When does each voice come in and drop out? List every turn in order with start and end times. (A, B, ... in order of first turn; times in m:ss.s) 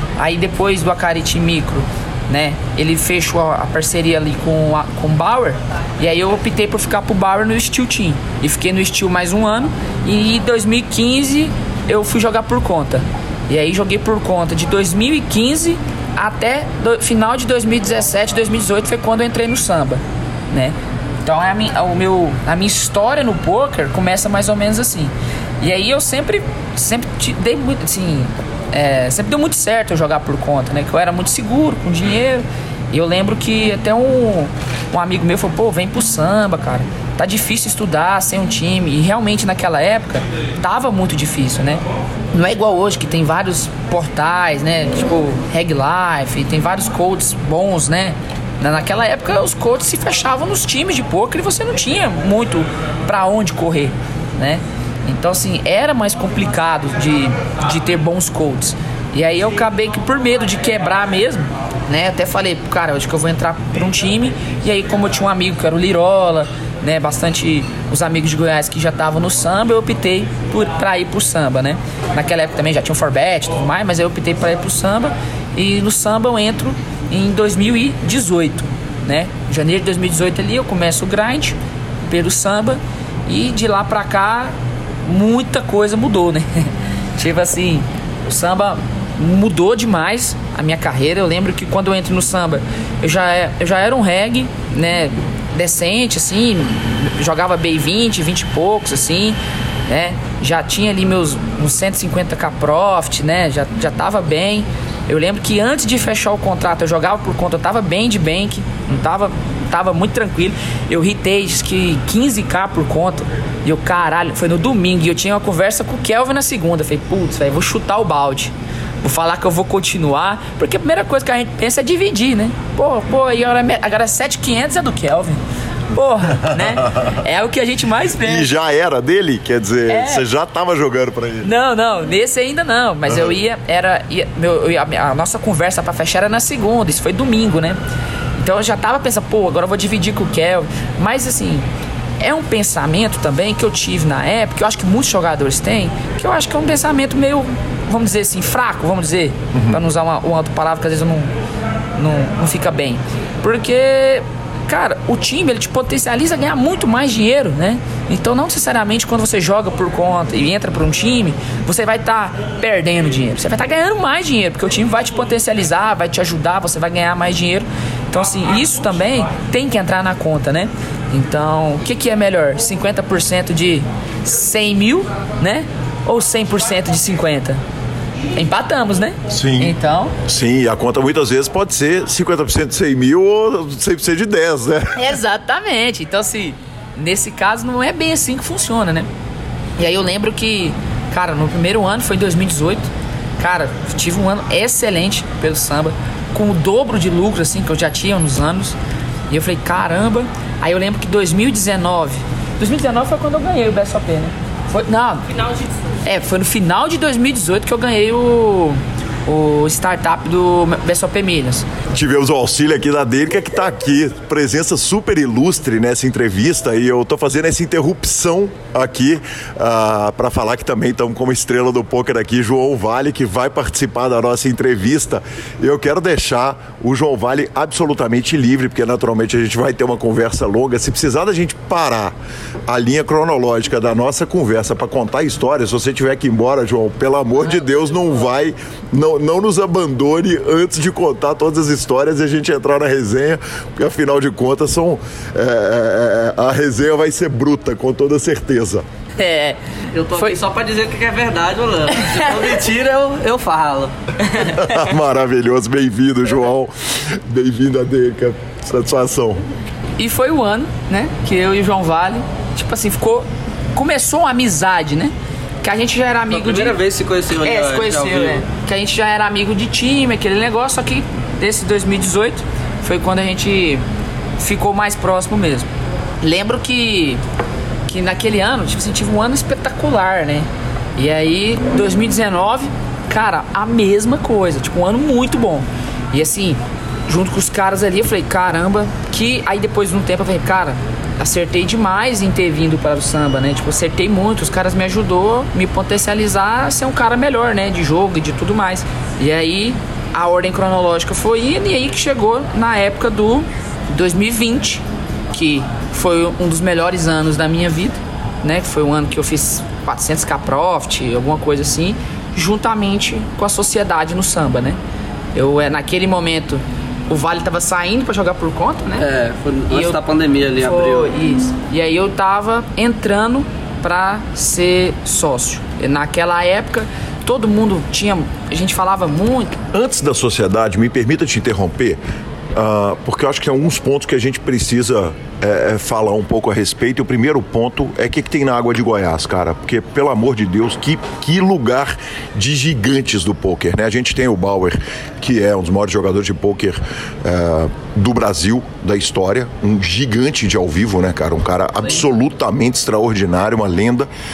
0:00.2-2:08.5 A
2:06.4-2:07.0 B
2:08.2-2:11.5 B
2:09.9-2:10.3 A
2:11.4-2:17.8 A
2:18.4-2:21.7 A
2:22.2-2:31.3 A
2:29.5-2:29.8 B
2:32.0-2:57.6 A
2:58.3-3:00.1 A
2:59.3-3:05.0 B
3:04.9-3:09.1 A
3:09.8-3:12.9 A
3:13.4-3:18.8 A
3:19.3-3:25.3 A
3:26.0-3:31.7 A
3:31.9-3:52.1 B
3:52.7-4:08.8 B
4:09.2-4:10.4 A
4:09.9-4:13.9 C
4:11.9-4:12.6 A
4:14.3-4:14.7 A
4:14.5-4:19.4 B
4:20.0-4:26.8 A
4:26.3-4:28.4 C
4:27.4-4:33.8 A
4:34.4-4:35.7 A
4:36.2-4:37.2 A
4:37.9-5:14.8 A
5:15.3-5:19.0 A
5:19.0-5:21.1 C
5:19.7-5:20.0 A
5:20.6-5:29.6 A
5:29.7-5:32.0 B
5:32.5-5:54.1 B